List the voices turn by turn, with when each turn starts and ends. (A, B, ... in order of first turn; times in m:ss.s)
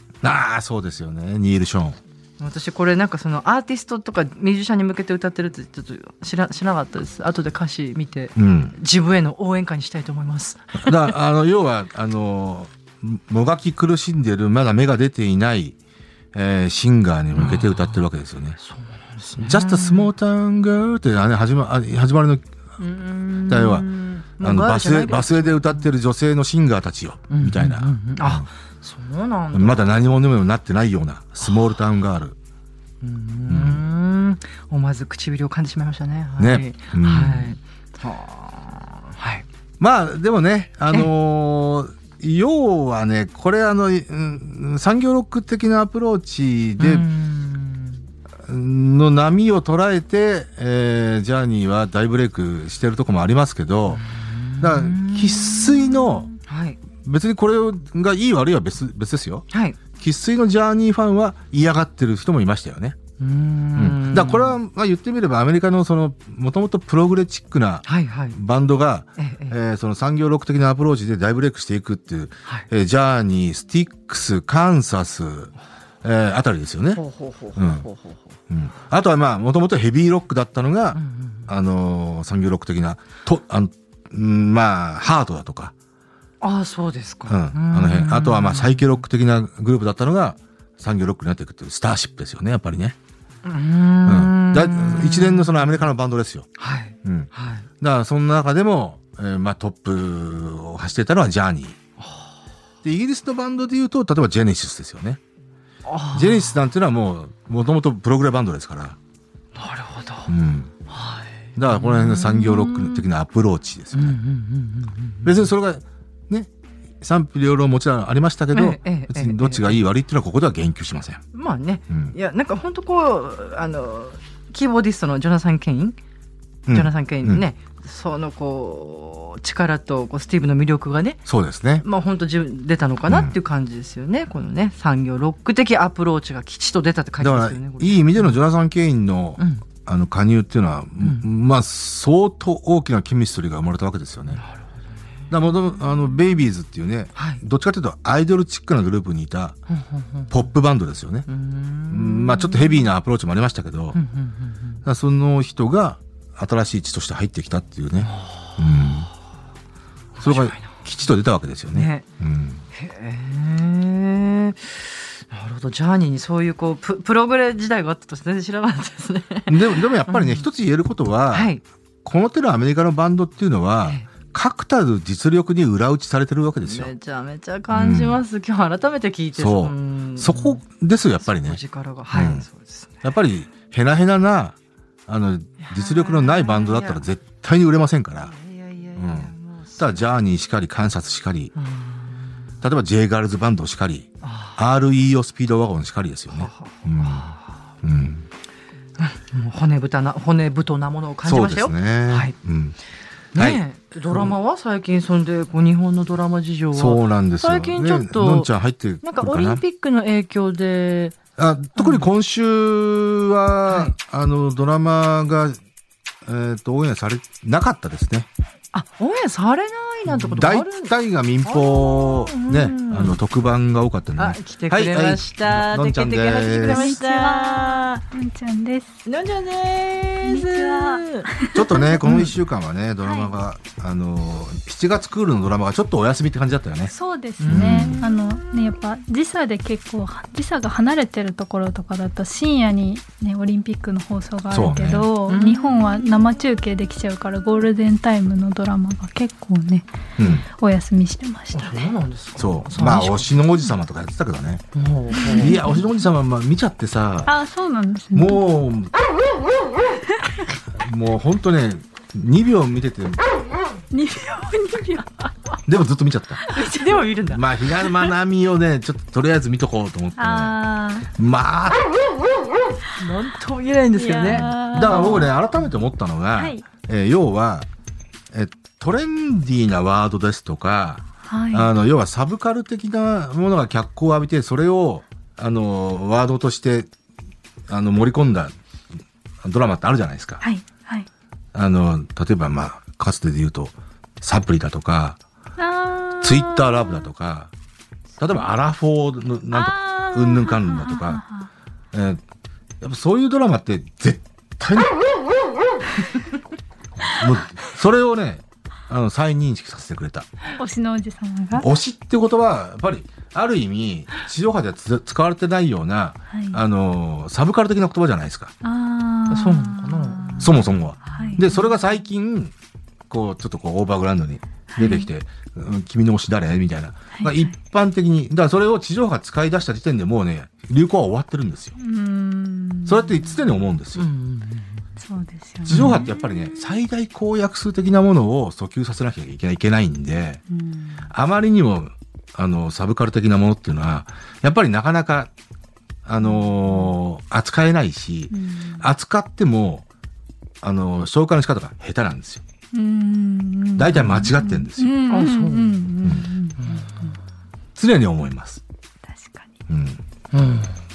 0:00.2-0:02.0 A
0:02.4-0:11.1 B
0:08.4-0:08.8 A
0:10.8-0:15.8 A
0:16.3-0:18.6 A
0:17.4-0:18.0 B
0:18.6-0:20.1 B
0:19.4-0:22.4 A
0:22.8-0:25.9 B
0:23.5-0:23.9 A
0:24.4-0:28.5 A
0:27.3-0:30.1 B
0:29.5-0:32.4 A
0:33.0-0:39.4 B
0:33.5-0:33.8 A
0:36.4-0:37.6 A
0:39.8-0:47.1 A
0:46.8-0:48.0 B
0:48.5-0:54.0 A
0:53.9-0:56.8 B
0:54.6-0:56.3 A
0:57.0-1:03.0 A
0:59.5-0:59.8 B
1:03.2-1:04.6 B
1:03.8-1:17.0 A
1:07.9-1:08.4 B
1:09.2-1:09.6 B
1:17.0-1:18.4 B
1:17.6-1:17.9 A
1:18.5-1:25.7 A
1:20.9-1:21.5 B
1:26.4-1:29.0 B
1:27.3-1:33.0 A
1:33.4-1:35.9 B
1:34.1-1:36.5 A
1:36.6-1:37.7 B
1:37.0-1:41.8 A
1:42.0-1:42.3 B
1:42.8-1:45.2 A
1:45.8-1:46.6 B
1:46.1-1:49.0 A
1:49.6-1:50.3 B
1:50.3-1:50.7 A
1:50.9-1:53.0 B
1:51.6-1:54.2 A
1:53.9-1:55.3 B
1:55.2-1:56.5 A
1:57.0-2:01.2 A
1:58.5-1:59.8 B
2:01.3-2:06.0 B
2:01.9-2:02.2 A
2:06.7-2:07.4 A
2:06.7-2:11.2 B
2:11.3-2:11.8 A
2:11.8-2:18.4 B
2:13.1-2:13.4 A
2:17.2-2:24.4 A
2:19.4-2:19.7 B
2:21.0-2:21.3 B
2:24.3-2:24.8 B
2:25.3-2:29.6 A
2:27.2-2:27.4 B
2:29.7-2:30.4 B
2:30.3-2:31.3 A
2:31.3-2:32.9 B
2:31.9-2:34.0 A
2:33.9-2:34.8 B
2:34.8-2:39.1 A
2:38.0-2:38.8 B
2:40.2-2:40.8 B
2:40.2-2:42.6 A
2:41.7-2:42.1 B
2:42.7-2:50.5 B
2:49.5-2:51.5 A
2:51.3-2:51.6 B
2:52.0-2:56.9 A
2:56.6-3:00.6 B
2:57.7-2:58.2 A
2:59.3-3:02.5 A
3:01.2-3:03.0 B
3:03.0-3:04.6 A
3:05.1-3:08.3 A
3:05.6-3:07.1 B
3:08.2-3:10.0 B
3:09.0-3:11.5 A
3:11.6-3:12.5 B
3:12.6-3:18.3 A
3:14.2-3:14.6 B
3:16.3-3:17.6 B
3:19.0-3:22.4 B
3:21.2-3:22.8 A
3:23.4-3:28.5 B
3:23.4-3:24.4 A
3:26.7-3:29.6 A
3:29.0-3:31.2 B
3:31.4-3:35.6 A
3:31.8-3:32.1 B
3:36.2-3:38.3 A
3:38.7-3:40.9 B
3:40.1-3:47.0 A
3:41.4-3:43.2 B
3:44.2-3:48.0 B
3:46.6-3:49.0 C
3:49.1-3:51.3 B
3:50.2-3:52.0 C
3:51.5-3:56.9 A
3:52.0-3:52.4 B
3:53.0-3:53.3 C
3:56.9-4:09.9 C
3:57.4-3:58.3 B
3:57.5-3:58.0 A
4:04.5-4:05.1 A
4:05.3-4:05.8 B
4:10.2-4:10.4 A
4:10.6-4:11.9 C
4:11.5-4:13.3 B
4:12.4-4:14.6 A
4:14.8-4:15.8 B
4:15.2-4:15.8 C
4:15.3-4:17.3 A
4:17.3-4:18.4 C
4:18.1-4:18.9 A
4:20.1-4:20.4 C
4:20.8-4:23.2 A
4:23.9-4:25.1 C
4:25.7-4:26.4 A
4:26.4-4:27.0 C
4:26.5-4:27.8 B
4:27.3-4:30.6 A
4:30.2-4:31.1 C
4:31.2-4:31.9 A
4:33.0-4:35.3 B
4:34.0-4:35.3 C
4:34.4-4:37.7 A
4:36.4-4:36.6 C
4:38.3-4:46.9 A
4:41.3-4:41.7 C
4:47.7-4:48.6 A
4:49.4-4:50.4 A
4:50.4-4:51.1 C
4:51.5-4:55.2 A
4:55.6-4:57.0 C
4:56.2-4:57.5 A
4:58.2-5:01.2 A
4:59.5-5:01.5 C
5:01.9-5:02.2 A
5:02.8-5:05.0 A
5:07.1-5:10.3 A
5:10.6-5:11.7 C
5:11.5-5:18.5 A
5:16.3-5:16.6 C
5:18.6-5:21.7 C
5:19.3-5:20.6 B
5:20.4-5:22.5 A
5:23.1-5:31.8 A
5:24.7-5:25.1 C
5:27.1-5:27.5 C
5:31.8-5:33.4 C
5:32.9-5:34.1 A
5:34.0-5:34.8 B
5:35.0-5:36.5 C
5:35.7-5:40.4 A
5:35.7-5:36.1 B
5:40.5-5:41.1 C
5:41.1-5:45.3 A
5:46.0-5:49.8 A
5:48.3-5:48.8 C
5:50.6-5:52.4 A
5:52.7-5:57.2 C
5:53.8-5:55.0 A
5:55.1-5:55.8 B
5:56.0-5:56.3 A
5:56.6-5:57.2 B
5:57.8-5:58.6 A
5:59.1-5:59.6 C
5:59.7-6:00.6 A
6:00.3-6:00.8 B